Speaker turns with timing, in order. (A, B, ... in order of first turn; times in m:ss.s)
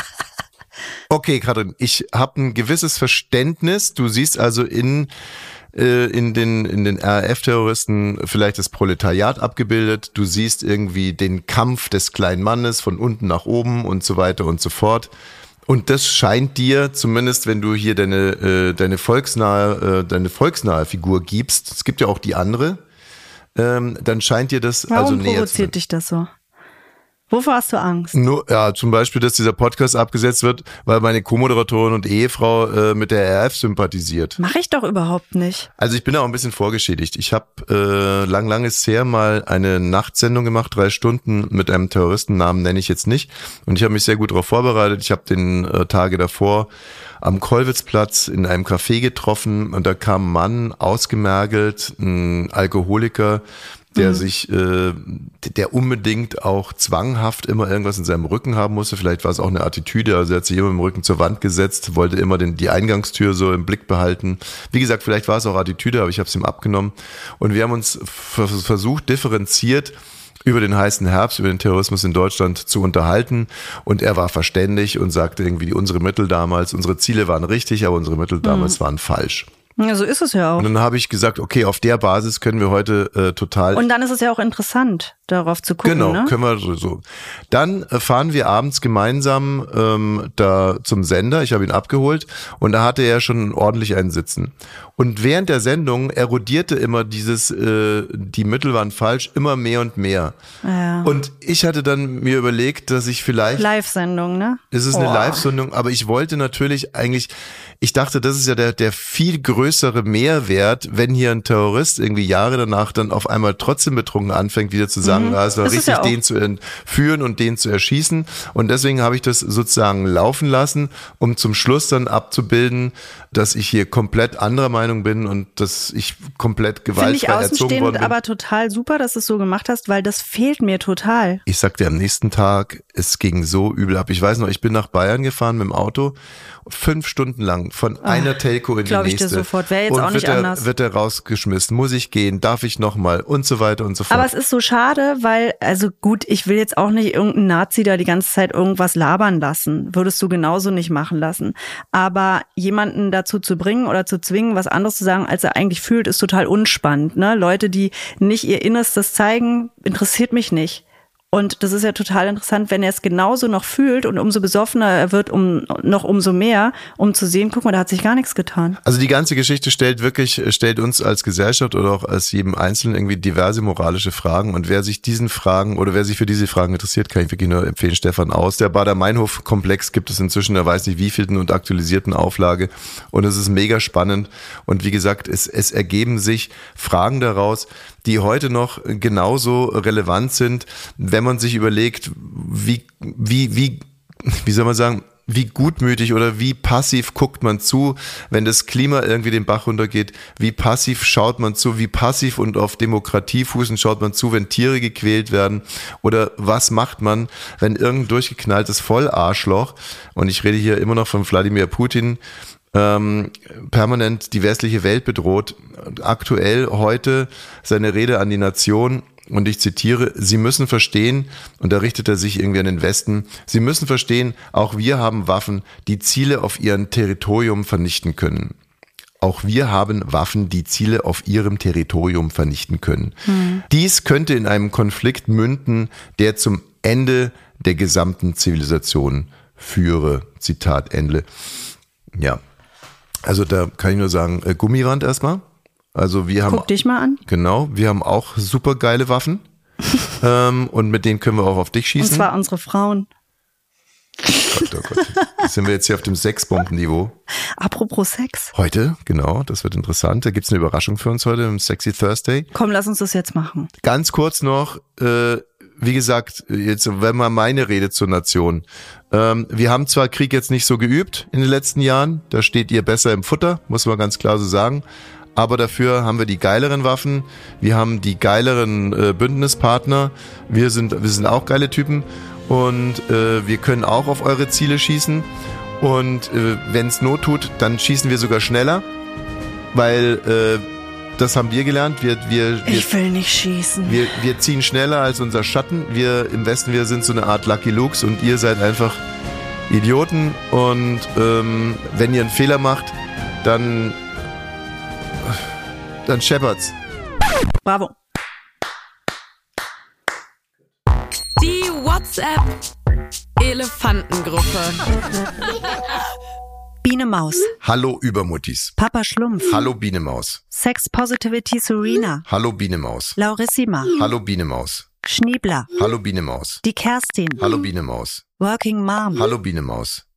0:01.1-0:05.1 A
0:05.7-0:15.1 A
0:15.7-0:22.8 A
0:23.6-0:25.7 A
0:24.9-0:26.3 B
0:27.3-0:28.2 B
0:28.1-0:34.4 A
0:34.4-0:35.7 B
0:35.8-0:46.7 A
0:47.2-0:53.4 A
0:53.9-1:19.5 A
0:54.0-0:54.3 B
1:18.4-1:18.8 B
1:19.8-1:20.7 B
1:20.6-1:23.8 A
1:23.7-1:26.3 B
1:25.8-1:40.4 A
1:40.6-1:41.1 B
1:41.0-1:43.7 A
1:43.6-1:45.5 B
1:44.7-2:08.1 A
1:55.0-1:56.2 B
2:07.0-2:11.4 B
2:11.5-2:24.3 A
2:18.0-2:20.7 B
2:24.1-2:48.8 B
2:48.8-3:32.2 A
3:32.7-3:48.5 A
3:49.2-4:01.2 A
3:53.3-3:53.6 B
4:03.2-4:06.7 A
4:06.5-4:07.2 B
4:07.2-4:09.4 A
4:10.2-4:12.3 A
4:12.0-4:13.1 B
4:14.4-4:17.1 A
4:17.6-4:18.5 B
4:18.5-4:22.5 A
4:22.5-4:23.7 B
4:23.8-4:34.8 A
4:35.4-4:45.3 A
4:45.8-4:48.8 A
4:49.7-4:50.6 A
4:51.2-4:52.9 A
4:52.6-4:54.1 B
4:53.8-4:59.0 A
4:59.7-5:04.0 A
5:06.0-5:06.7 A
5:07.6-5:07.9 B
5:11.4-5:12.5 C
5:13.4-5:14.8 C
5:16.8-5:17.5 B
5:17.6-5:18.8 A
5:18.8-5:19.6 B
5:19.4-5:20.4 A
5:20.5-5:22.2 B
5:22.2-5:23.2 A
5:23.2-5:23.9 B
5:24.0-5:24.8 A
5:25.0-5:25.7 B
5:25.8-5:26.6 A
5:26.6-5:27.4 B
5:27.4-5:28.2 A
5:28.4-5:29.3 B
5:29.2-5:30.0 A